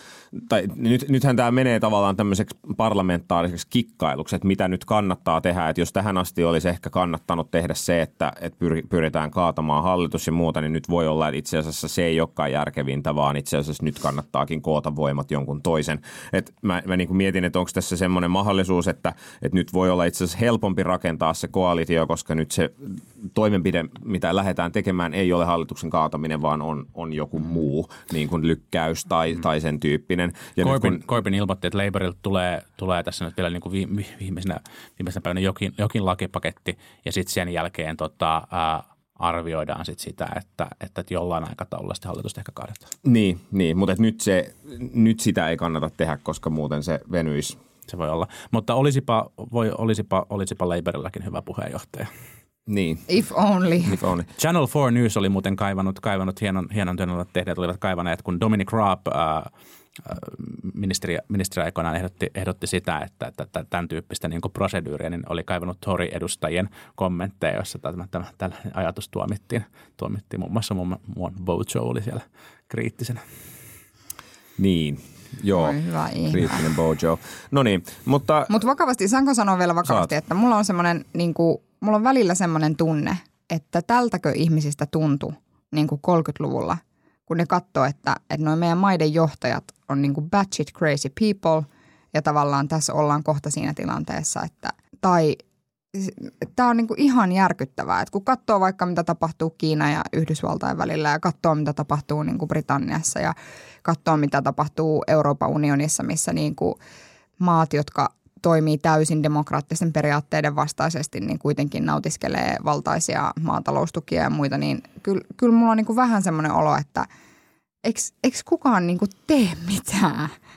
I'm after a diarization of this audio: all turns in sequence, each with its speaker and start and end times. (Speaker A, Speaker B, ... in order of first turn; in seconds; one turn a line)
Speaker A: 0.3-31.0
Speaker B: 30.6-42.9
Speaker A: 43.0-47.6
Speaker B: 47.9-52.1
Speaker A: 52.7-53.1
Speaker C: 53.1-53.9
Speaker A: 53.9-54.2
Speaker B: 54.4-59.5
Speaker B: 60.0-73.2
Speaker A: 74.6-78.5
Speaker C: 75.5-76.6
Speaker C: 78.5-95.4
Speaker A: 79.8-80.1
Speaker C: 95.9-106.8
Speaker C: 107.4-117.1
Speaker C: 117.8-120.3